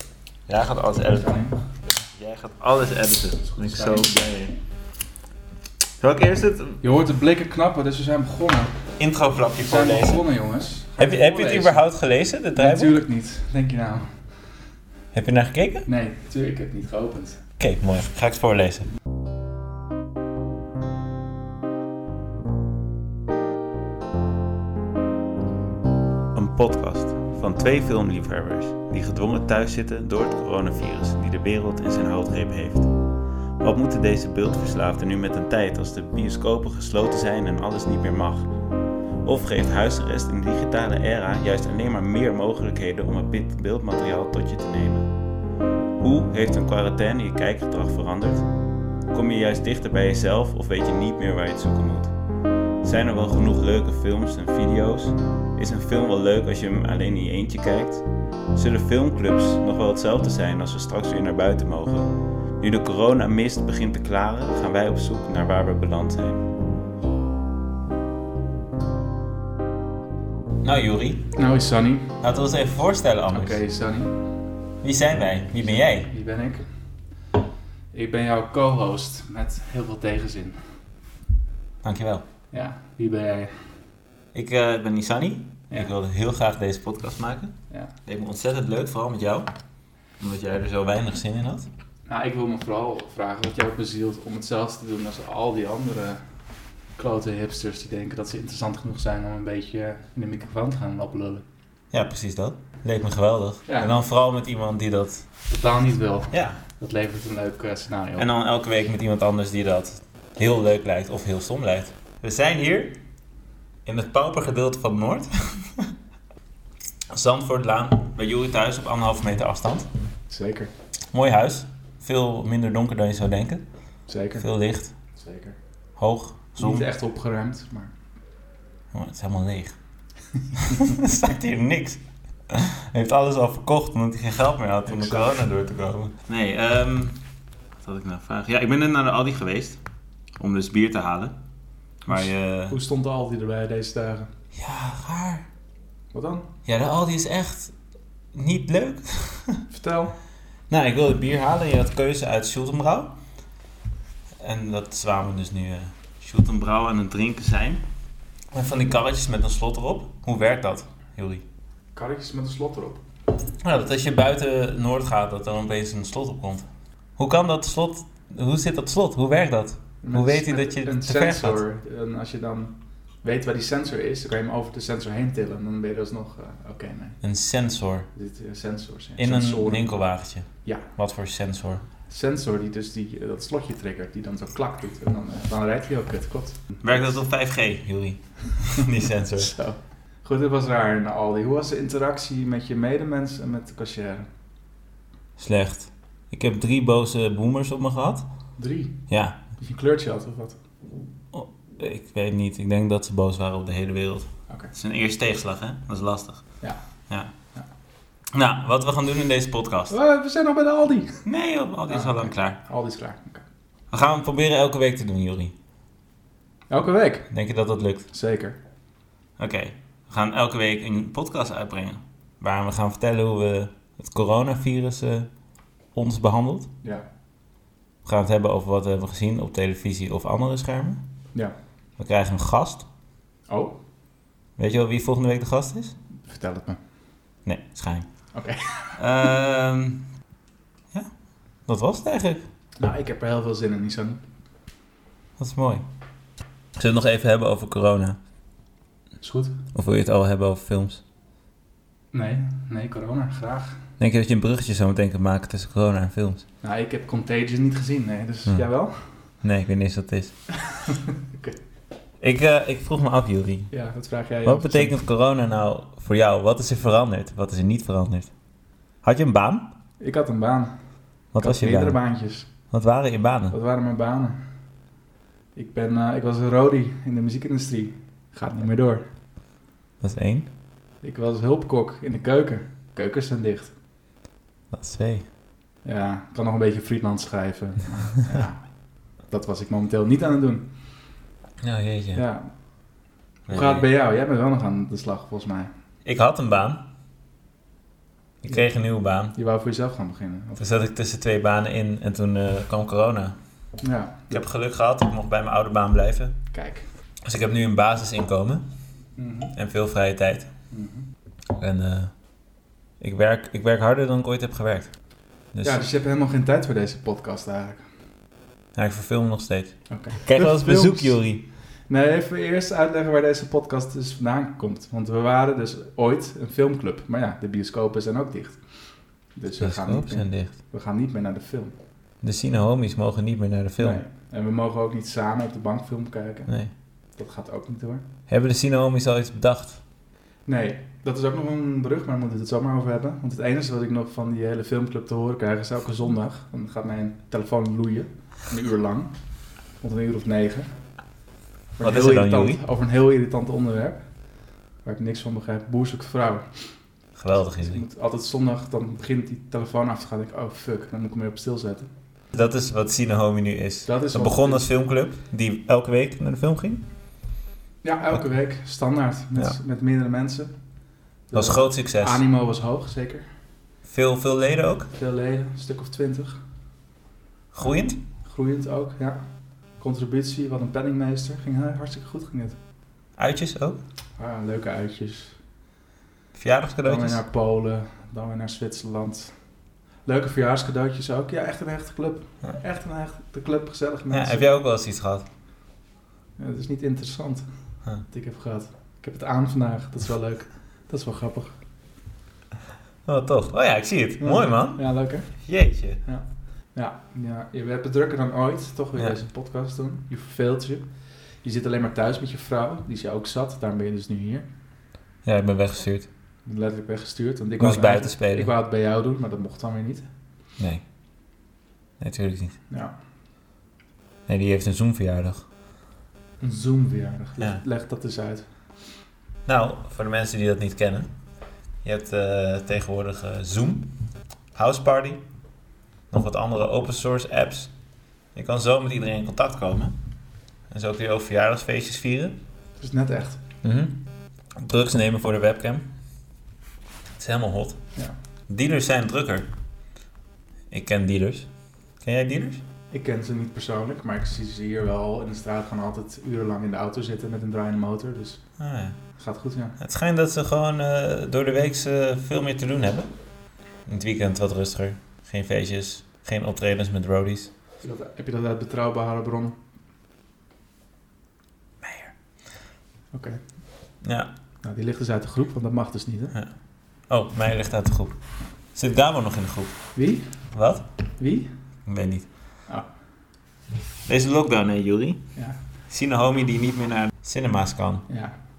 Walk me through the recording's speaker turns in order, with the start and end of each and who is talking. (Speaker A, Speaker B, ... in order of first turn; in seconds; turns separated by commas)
Speaker A: 0.5-1.3, Speaker B: 1.0-1.6, Speaker A: 2.1-4.5, Speaker B: 3.5-4.4, Speaker A: 6.0-6.8, Speaker B: 6.8-8.8, Speaker A: 9.0-10.2, Speaker B: 9.6-11.8, Speaker A: 11.0-13.0, Speaker B: 12.5-14.3, Speaker A: 15.1-15.9, Speaker B: 15.8-17.4, Speaker A: 17.6-18.9, Speaker A: 26.3-32.9, Speaker A: 33.6-38.5, Speaker A: 39.2-45.1, Speaker A: 46.0-48.5, Speaker A: 49.1-52.1, Speaker A: 52.8-66.5, Speaker A: 70.6-71.3, Speaker B: 71.3-72.2, Speaker A: 72.2-73.6, Speaker B: 73.3-74.3, Speaker A: 74.8-76.1, Speaker B: 75.5-76.6, Speaker B: 77.9-80.6, Speaker A: 81.8-82.2, Speaker B: 82.5-83.7, Speaker A: 84.3-87.5, Speaker A: 88.0-89.5, Speaker A: 90.2-91.7, Speaker B: 92.1-96.2, Speaker B: 97.0-101.4, Speaker A: 101.9-105.2, Speaker B: 103.7-104.0, Speaker B: 105.5-108.3, Speaker A: 106.3-106.6, Speaker A: 108.2-113.0, Speaker A: 113.8-115.9, Speaker A: 117.1-119.9, Speaker B: 120.3-120.7, Speaker A: 121.1-123.6, Speaker B: 124.1-124.4, Speaker A: 124.4-124.9, Speaker B: 125.1-125.6, Speaker A: 126.0-126.9, Speaker B: 126.6-127.9, Speaker A: 128.9-129.7, Speaker A: 130.6-137.2, Speaker B: 134.8-135.4, Speaker A: 137.8-139.8, Speaker A: 140.4-141.3, Speaker A: 142.1-142.8, Speaker B: 142.1-144.3, Speaker A: 144.5-145.4, Speaker B: 146.1-146.5, Speaker A: 146.7-147.7, Speaker A: 148.3-149.6, Speaker B: 149.7-150.1, Speaker A: 150.7-153.2, Speaker A: 154.4-157.8, Speaker A: 158.5-161.4, Speaker B: 161.9-163.0, Speaker A: 163.6-171.6, Speaker B: 170.0-177.2, Speaker A: 177.2-178.1, Speaker B: 178.1-179.9, Speaker A: 179.2-181.8, Speaker B: 180.6-180.9, Speaker B: 182.1-187.2, Speaker A: 186.8-189.5, Speaker B: 189.4-194.3, Speaker A: 195.4-198.2, Speaker B: 198.6-198.9, Speaker A: 199.1-199.4, Speaker B: 199.6-200.6, Speaker A: 201.3-206.4, Speaker A: 208.3-209.9, Speaker B: 209.9-211.2, Speaker A: 211.2-212.6, Speaker B: 211.9-213.4, Speaker A: 213.9-215.5, Speaker B: 216.7-217.3, Speaker A: 217.3-218.1, Speaker B: 218.1-218.6, Speaker A: 219.4-225.3, Speaker A: 225.9-226.7, Speaker A: 228.0-231.0, Speaker A: 232.0-232.9, Speaker B: 233.5-233.8, Speaker A: 234.6-235.9, Speaker B: 236.3-236.8, Speaker A: 237.4-238.1, Speaker B: 238.3-239.3, Speaker A: 239.0-240.1, Speaker A: 241.7-242.5, Speaker B: 242.8-244.2, Speaker A: 245.4-245.8, Speaker A: 246.8-248.2, Speaker B: 249.2-249.6, Speaker A: 249.7-251.0, Speaker B: 252.1-253.8, Speaker A: 254.0-256.4, Speaker B: 256.6-259.2, Speaker A: 259.4-260.3, Speaker B: 260.6-261.6, Speaker A: 262.2-263.7, Speaker B: 263.7-265.0, Speaker A: 264.4-268.3, Speaker A: 269.0-269.7, Speaker B: 270.0-270.7, Speaker A: 271.3-272.0, Speaker B: 271.4-272.5, Speaker A: 272.7-273.5, Speaker B: 273.5-274.4, Speaker B: 275.5-279.1, Speaker A: 280.0-280.5, Speaker B: 281.0-283.7, Speaker A: 284.7-285.3, Speaker B: 285.8-288.7, Speaker B: 289.2-290.7, Speaker A: 291.6-292.2, Speaker B: 292.1-292.5, Speaker A: 293.5-293.9, Speaker B: 293.5-295.7, Speaker A: 296.0-296.8, Speaker A: 298.4-299.4, Speaker B: 299.3-300.6, Speaker A: 300.6-303.3, Speaker B: 303.8-304.4, Speaker A: 304.3-306.3, Speaker B: 306.5-306.9, Speaker A: 307.2-308.6, Speaker B: 309.1-309.5, Speaker A: 309.6-310.5, Speaker B: 310.7-311.1, Speaker A: 311.6-312.1, Speaker A: 313.0-314.9, Speaker A: 315.5-315.8, Speaker B: 315.6-317.8, Speaker A: 318.7-321.4, Speaker B: 319.9-321.2, Speaker B: 321.9-331.7, Speaker A: 329.6-330.5, Speaker A: 332.2-334.0, Speaker B: 333.8-336.5, Speaker B: 337.1-338.0, Speaker A: 338.3-339.8, Speaker B: 340.4-349.1, Speaker B: 349.8-350.7, Speaker B: 351.8-354.1, Speaker A: 351.8-352.6, Speaker B: 354.8-356.8, Speaker A: 357.1-357.8, Speaker B: 357.6-361.9, Speaker A: 362.3-366.8, Speaker B: 363.8-364.7, Speaker B: 367.8-370.5, Speaker B: 371.3-373.3, Speaker A: 371.3-372.2, Speaker A: 373.9-374.9, Speaker B: 374.9-376.4, Speaker A: 377.5-378.0, Speaker B: 378.2-379.2, Speaker B: 379.8-382.6, Speaker A: 383.2-383.8, Speaker B: 384.2-385.4, Speaker A: 386.4-387.2, Speaker B: 386.8-389.3, Speaker B: 390.0-394.5, Speaker A: 394.1-395.2, Speaker B: 396.4-397.4, Speaker B: 398.0-401.6, Speaker A: 403.0-404.8, Speaker B: 404.2-405.3, Speaker A: 405.3-406.0, Speaker B: 406.0-410.9, Speaker B: 411.4-414.5, Speaker A: 415.2-416.1, Speaker B: 416.4-420.1, Speaker A: 417.6-418.5, Speaker A: 420.6-420.8, Speaker A: 422.0-422.6, Speaker A: 424.3-425.5, Speaker B: 426.4-428.5, Speaker A: 429.4-431.1, Speaker A: 431.8-433.9, Speaker A: 434.5-435.2, Speaker A: 436.1-437.7, Speaker A: 438.3-439.9, Speaker A: 440.7-442.4, Speaker B: 442.8-443.4, Speaker A: 443.6-444.0, Speaker A: 444.6-445.8, Speaker A: 447.2-447.8, Speaker A: 448.5-449.5, Speaker A: 450.7-451.5, Speaker A: 452.0-452.6, Speaker B: 452.9-458.4, Speaker A: 458.6-458.9, Speaker B: 459.1-459.8, Speaker A: 459.8-463.1, Speaker A: 463.9-467.5, Speaker B: 467.8-469.6, Speaker A: 471.8-472.1, Speaker B: 473.1-473.4, Speaker A: 474.0-474.3, Speaker B: 474.6-476.3, Speaker A: 477.1-478.1, Speaker A: 478.7-479.7, Speaker B: 479.9-480.2, Speaker A: 480.5-480.8, Speaker B: 481.2-481.5, Speaker A: 481.9-482.3, Speaker A: 484.1-485.2, Speaker A: 485.9-488.1, Speaker B: 488.1-488.3